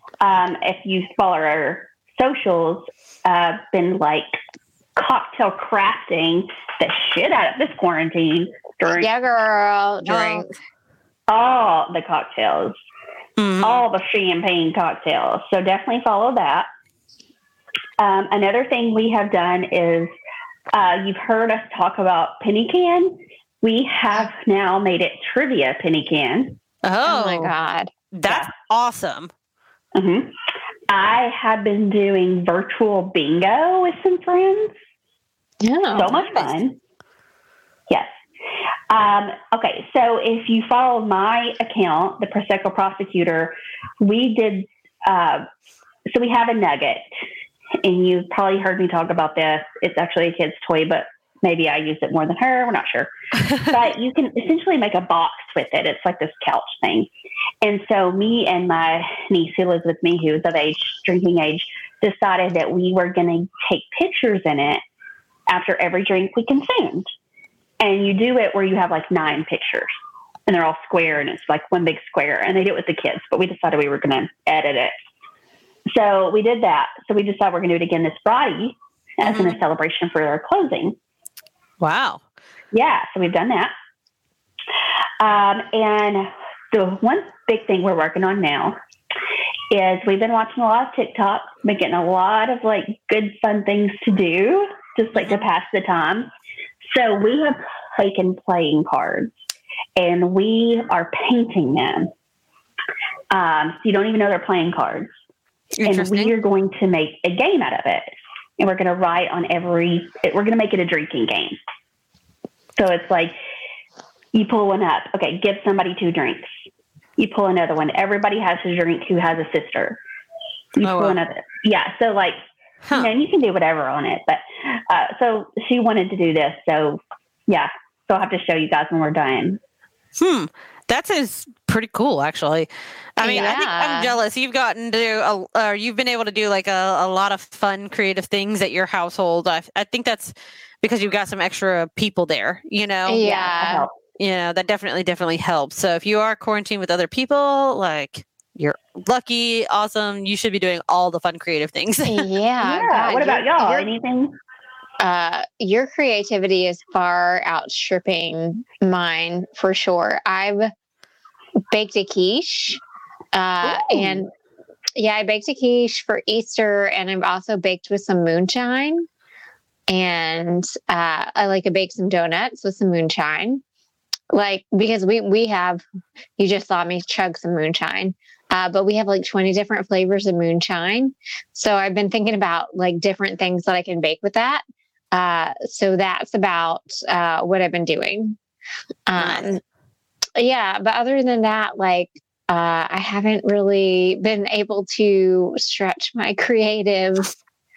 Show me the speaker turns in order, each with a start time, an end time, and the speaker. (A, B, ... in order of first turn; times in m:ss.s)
0:00.2-0:04.3 A
0:05.0-0:09.1 A
0:09.0-0:10.5 B
0:10.0-0:10.5 C
0:11.3-0:12.8 A
0:13.4-0:13.8 C
0:13.6-0:16.7 A
0:18.0-0:20.1 A
0:20.7-0:26.6 A
0:26.8-0:27.5 C
0:27.0-0:27.9 B
0:28.1-0:29.3 C
0:29.9-0:30.3 A
0:30.9-0:34.8 A
0:35.6-0:36.1 B
0:35.9-0:36.8 A
0:36.0-0:36.6 C
0:38.9-0:45.4 A
0:46.1-0:47.0 A
0:47.8-0:57.1 A
0:57.6-1:04.8 A
1:05.5-1:07.1 A
1:07.8-1:09.9 A
1:10.5-1:14.9 A
1:15.9-1:21.0 A
1:19.2-1:19.6 C
1:21.8-1:22.2 C
1:22.7-1:23.7 A
1:25.2-1:28.8 A
1:29.7-1:36.3 A
1:36.8-1:39.3 A
1:40.0-1:42.1 A
1:43.3-1:45.1 A
1:45.8-1:46.3 C
1:45.8-1:51.6 A
1:52.8-1:53.4 A
1:54.3-1:56.5 A
1:57.2-2:00.0 A
2:00.8-2:02.4 A
2:00.8-2:01.2 C
2:02.9-2:03.1 C
2:02.9-2:09.6 A
2:10.2-2:23.5 C
2:13.2-2:14.1 B
2:23.0-2:23.8 B
2:23.6-2:23.9 A
2:24.2-2:32.3 C
2:32.0-2:33.9 B
2:32.6-2:34.3 A
2:35.0-2:40.7 B
2:41.7-2:42.8 B
2:43.3-2:44.3 B
2:43.8-2:44.1 A
2:45.0-2:49.1 B
2:49.9-2:53.6 B
2:54.3-2:55.8 B
2:56.4-3:08.3 B
3:09.1-3:09.6 B
3:09.2-3:09.5 C
3:10.4-3:17.3 B